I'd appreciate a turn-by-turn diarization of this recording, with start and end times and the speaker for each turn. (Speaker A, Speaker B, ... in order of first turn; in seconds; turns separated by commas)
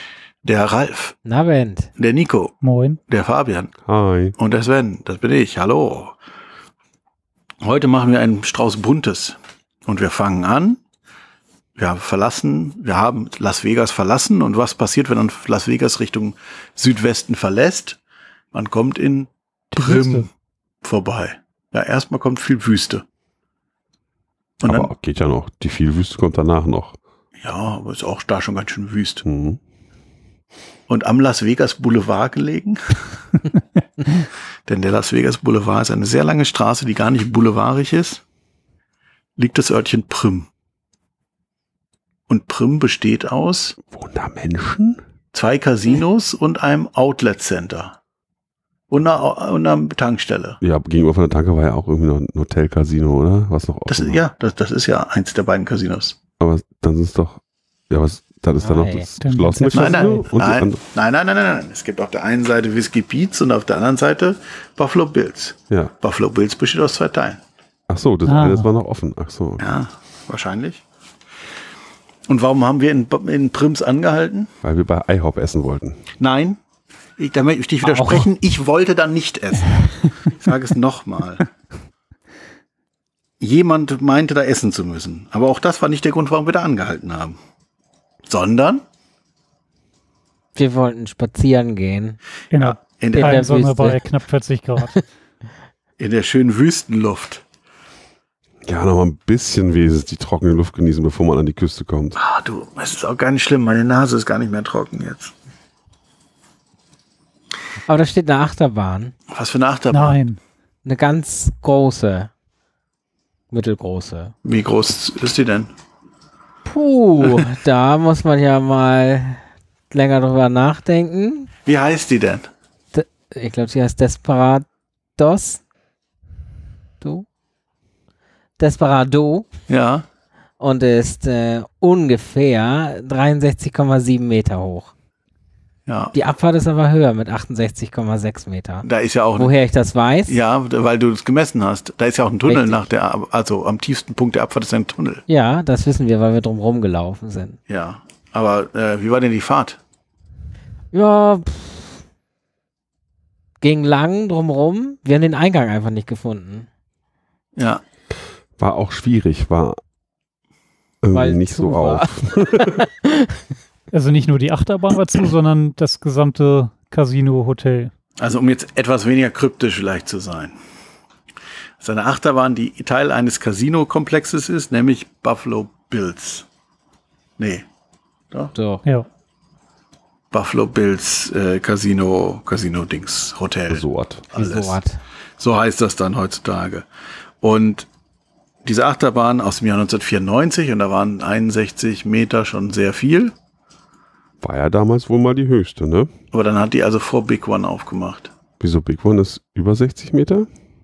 Speaker A: 0.4-1.1, Speaker B: 1.2-1.9, Speaker A: 2.0-2.5, Speaker C: 2.6-3.0, Speaker A: 3.1-3.7, Speaker D: 3.8-4.3, Speaker A: 4.4-6.2, Speaker A: 7.6-10.8, Speaker A: 11.8-18.0, Speaker A: 18.5-20.3, Speaker C: 19.7-20.2, Speaker A: 20.8-23.0, Speaker A: 24.6-24.9, Speaker D: 24.6-27.0, Speaker A: 27.4-29.2, Speaker D: 29.2-29.6, Speaker A: 30.9-33.0, Speaker A: 34.7-38.2, Speaker A: 39.4-40.5, Speaker A: 42.3-43.8, Speaker D: 43.9-45.0, Speaker A: 45.3-48.0, Speaker A: 48.9-50.6, Speaker D: 50.6-54.2, Speaker A: 53.9-56.2, Speaker D: 56.4-60.8, Speaker B: 58.6-59.1, Speaker C: 59.2-60.2, Speaker A: 59.7-67.4, Speaker D: 67.9-69.8, Speaker C: 68.2-68.7, Speaker A: 69.6-70.8, Speaker A: 72.3-74.5, Speaker D: 74.6-76.0, Speaker A: 76.2-76.6, Speaker A: 77.2-81.5, Speaker B: 77.8-78.2, Speaker A: 83.4-87.4, Speaker A: 88.3-88.8, Speaker B: 90.5-92.2, Speaker C: 92.5-95.0, Speaker A: 92.5-93.5, Speaker B: 93.1-94.0, Speaker A: 96.0-97.4, Speaker D: 98.6-102.2, Speaker A: 102.2-105.3, Speaker B: 107.9-109.1, Speaker A: 109.3-110.2, Speaker C: 109.9-110.4, Speaker B: 110.8-112.3, Speaker B: 113.5-114.3, Speaker A: 114.4-115.7, Speaker B: 116.7-121.5, Speaker A: 121.7-122.5, Speaker B: 122.9-124.6, Speaker B: 125.2-125.6, Speaker B: 127.0-127.2, Speaker B: 128.6-129.5, Speaker A: 129.7-130.0, Speaker B: 130.6-134.9, Speaker A: 135.9-136.1, Speaker B: 136.1-140.3, Speaker A: 138.8-139.5, Speaker A: 140.3-145.2, Speaker B: 142.5-142.8, Speaker B: 145.3-147.6, Speaker A: 147.7-149.8, Speaker B: 150.9-152.0, Speaker B: 153.6-156.7, Speaker A: 157.6-157.8, Speaker D: 158.6-159.8, Speaker D: 161.0-162.8, Speaker B: 161.1-163.3, Speaker C: 163.9-167.9, Speaker A: 168.2-170.6, Speaker A: 171.8-176.4, Speaker A: 177.4-177.7, Speaker B: 178.5-178.8, Speaker A: 180.3-184.8, Speaker D: 183.7-184.3, Speaker B: 184.3-185.0, Speaker A: 185.4-186.8, Speaker A: 187.4-187.9, Speaker A: 188.6-193.3, Speaker D: 194.4-196.1, Speaker A: 196.3-198.3, Speaker D: 198.6-200.5